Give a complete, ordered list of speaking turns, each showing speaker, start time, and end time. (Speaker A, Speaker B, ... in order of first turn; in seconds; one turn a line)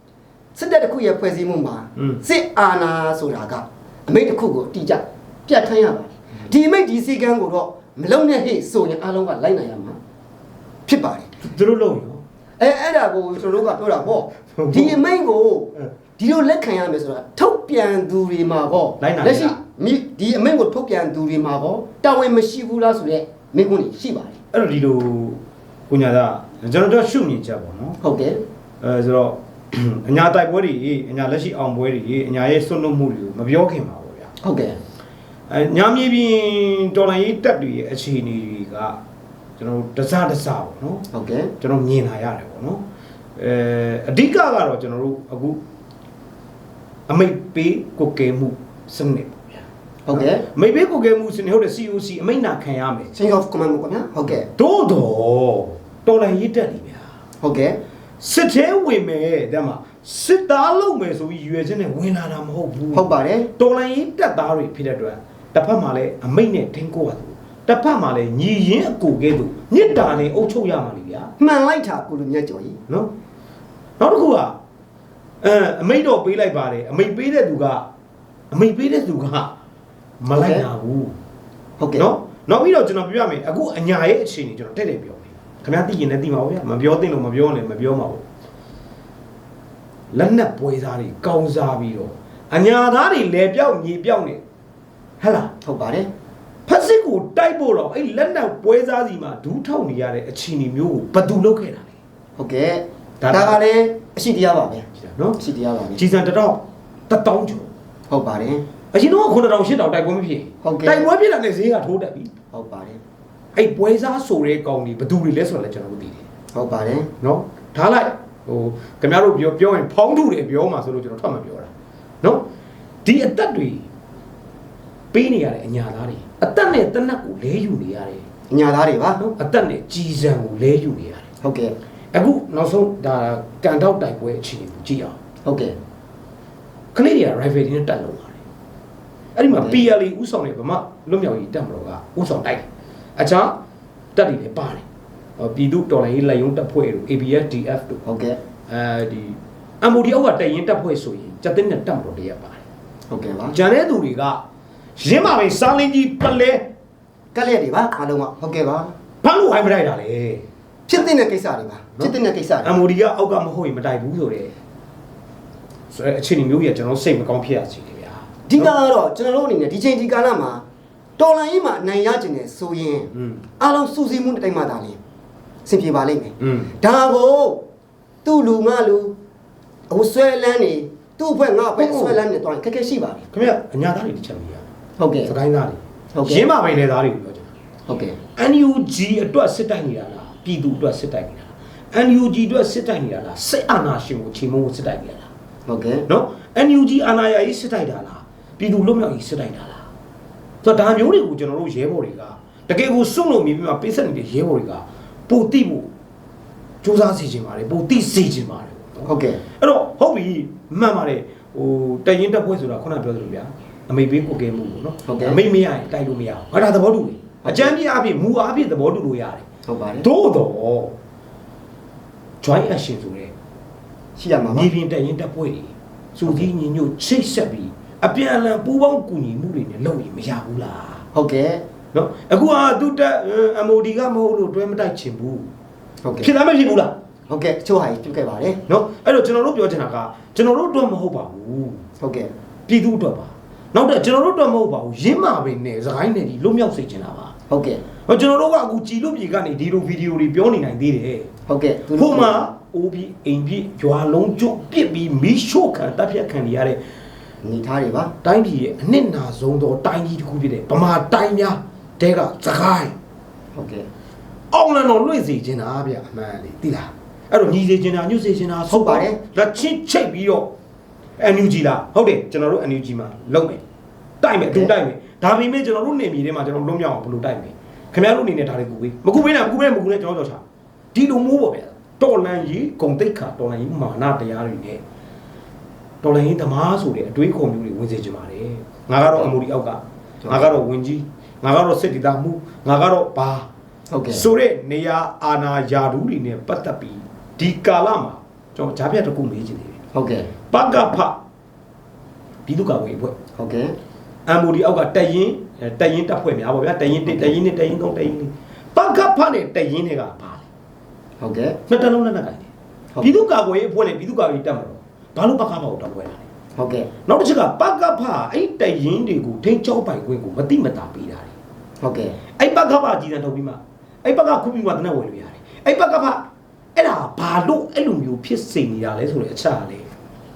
Speaker A: 0.5-10.0
Speaker A: 10.9-11.3
Speaker B: 11.4-12.2
Speaker A: 12.6-24.4
Speaker B: 14.5-15.0
Speaker B: 19.0-19.6
Speaker B: 24.5-28.0
Speaker A: 28.0-28.4
Speaker B: 28.8-34.3
Speaker A: 34.4-34.8
Speaker B: 35.5-39.0
Speaker B: 39.6-41.1
Speaker A: 41.1-41.5
Speaker B: 41.6-42.8
Speaker B: 43.4-45.6
Speaker B: 47.1-53.1
Speaker A: 50.1-50.4
Speaker A: 53.1-54.5
Speaker B: 54.4-57.0
Speaker A: 57.4-57.8
Speaker B: 58.2-71.3
Speaker A: 62.9-63.5
Speaker A: 71.4-72.8
Speaker B: 74.0-74.5
Speaker B: 75.4-77.8
Speaker B: 78.5-79.5
Speaker B: 80.2-81.1
Speaker A: 80.3-80.7
Speaker A: 81.8-82.0
Speaker B: 82.0-88.2
Speaker B: 90.1-94.4
Speaker B: 95.2-95.5
Speaker A: 95.6-96.1
Speaker B: 96.7-101.9
Speaker A: 102.4-104.8
Speaker B: 103.2-103.6
Speaker B: 105.1-105.4
Speaker A: 105.4-106.0
Speaker B: 106.0-107.7
Speaker A: 108.1-108.6
Speaker B: 108.9-112.3
Speaker A: 110.6-111.1
Speaker A: 112.5-113.0
Speaker B: 113.5-116.2
Speaker A: 116.5-117.1
Speaker B: 117.2-121.7
Speaker B: 123.0-123.8
Speaker B: 125.1-128.2
Speaker A: 128.5-129.2
Speaker B: 129.2-131.3
Speaker A: 131.4-131.7
Speaker B: 132.1-135.1
Speaker A: 135.4-135.8
Speaker B: 136.9-138.4
Speaker B: 139.3-142.6
Speaker A: 139.5-139.8
Speaker B: 143.2-143.6
Speaker B: 144.2-144.8
Speaker B: 145.4-148.0
Speaker A: 148.0-148.4
Speaker B: 148.7-152.6
Speaker A: 153.1-153.6
Speaker B: 153.5-154.4
Speaker B: 155.0-156.6
Speaker A: 157.3-158.9
Speaker B: 159.2-160.4
Speaker A: 160.9-162.8
Speaker B: 162.0-164.5
Speaker B: 165.9-168.7
Speaker A: 168.5-170.6
Speaker A: 171.2-175.0
Speaker B: 173.1-173.4
Speaker A: 175.7-177.6
Speaker B: 176.4-176.7
Speaker A: 178.2-179.2
Speaker A: 179.9-183.2
Speaker B: 181.8-182.2
Speaker B: 183.3-184.6
Speaker A: 185.0-185.3
Speaker B: 185.2-187.5
Speaker A: 186.1-186.4
Speaker A: 187.9-188.2
Speaker B: 188.3-195.3
Speaker A: 195.7-196.1
Speaker B: 196.1-199.8
Speaker B: 200.6-205.9
Speaker B: 206.8-219.4
Speaker A: 209.1-209.4
Speaker A: 215.1-215.4
Speaker A: 217.4-217.7
Speaker A: 219.7-220.1
Speaker B: 220.0-220.9
Speaker B: 222.4-223.3
Speaker A: 224.2-224.7
Speaker B: 224.5-231.0
Speaker A: 231.1-231.6
Speaker B: 231.9-235.5
Speaker A: 236.0-236.3
Speaker B: 236.2-236.9
Speaker A: 237.3-238.6
Speaker B: 238.7-241.8
Speaker A: 242.0-242.3
Speaker B: 242.7-247.3
Speaker A: 247.5-247.8
Speaker B: 248.1-251.3
Speaker A: 251.5-252.4
Speaker B: 251.9-256.8
Speaker A: 257.4-258.1
Speaker B: 258.2-262.9
Speaker A: 263.5-263.9
Speaker B: 264.5-270.5
Speaker A: 268.7-269.2
Speaker B: 271.2-273.6
Speaker B: 274.2-280.4
Speaker B: 280.9-284.8
Speaker B: 286.0-293.5
Speaker A: 290.2-290.5
Speaker A: 293.9-294.2
Speaker B: 294.1-299.8
Speaker A: 299.9-300.3
Speaker B: 300.5-301.2
Speaker B: 302.5-303.1
Speaker A: 303.4-303.8
Speaker B: 304.3-310.4
Speaker A: 311.2-311.6
Speaker B: 311.7-312.5
Speaker B: 313.0-316.2
Speaker A: 316.6-316.9
Speaker B: 317.1-321.3
Speaker A: 321.8-322.2
Speaker B: 322.4-326.2
Speaker B: 326.8-329.9